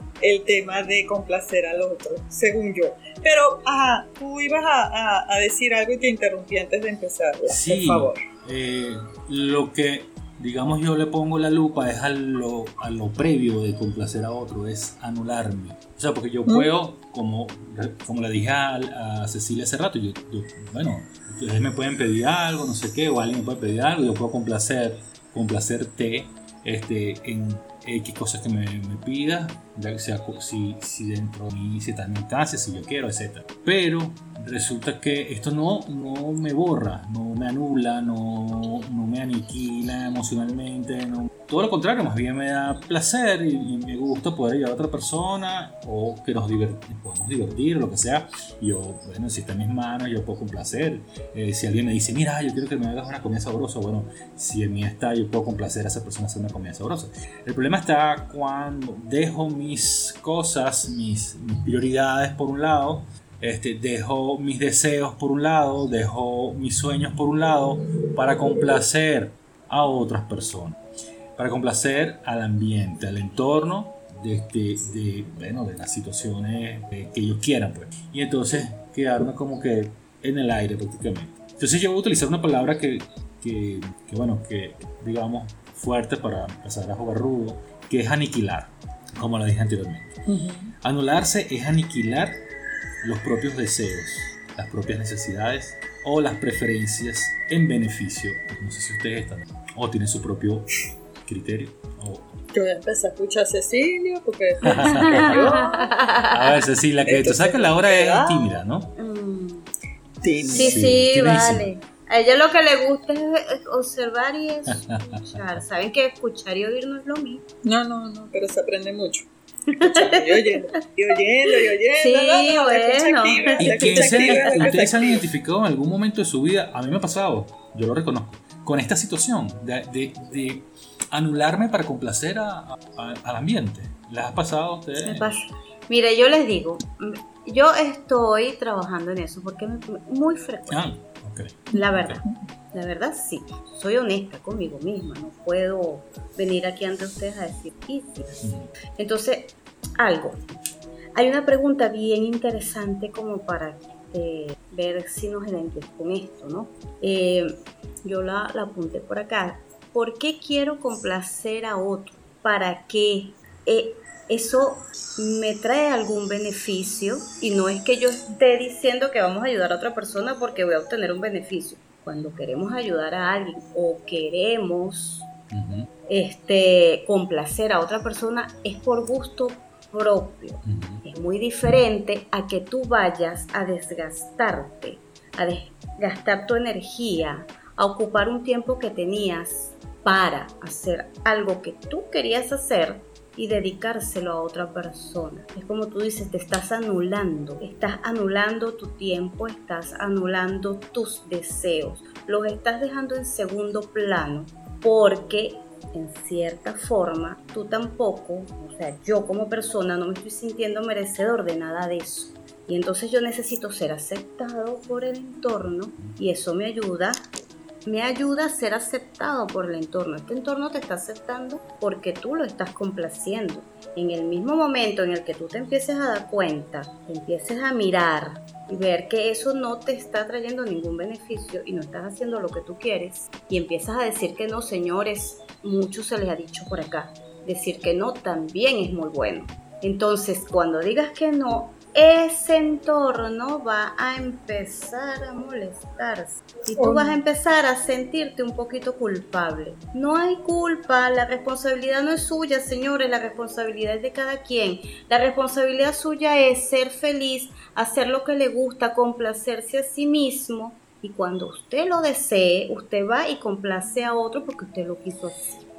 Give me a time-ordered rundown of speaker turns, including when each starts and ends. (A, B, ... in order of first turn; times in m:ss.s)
0:00.2-0:08.2 A
0:07.5-1:10.8 B
0:16.5-0:16.7 A
1:11.4-1:30.2 B
1:30.3-1:30.7 A
1:30.8-1:32.4 B
1:33.0-1:40.7 B
1:41.2-1:42.3 B
1:42.5-1:45.9 A
1:44.7-1:45.6 B
1:44.8-1:46.5 C
1:46.3-1:48.9 B
1:47.0-1:48.6 A
1:49.0-1:49.7 C
1:50.2-1:50.8 A
1:50.4-1:51.7 B
1:50.5-1:57.4 C
1:54.8-1:55.6 B
1:57.6-2:05.2 A
1:59.7-2:00.8 C
2:01.5-2:04.8 C
2:03.6-2:15.4 B
2:15.0-2:20.9 C
2:20.7-2:22.2 B
2:21.7-2:28.4 C
2:28.4-2:28.7 B
2:29.0-2:30.4 C
2:31.1-2:55.3 C
2:55.5-2:55.9 B
2:56.1-3:37.2 C
3:00.6-3:01.0 B
3:37.8-4:25.4 C
4:06.7-4:07.2 A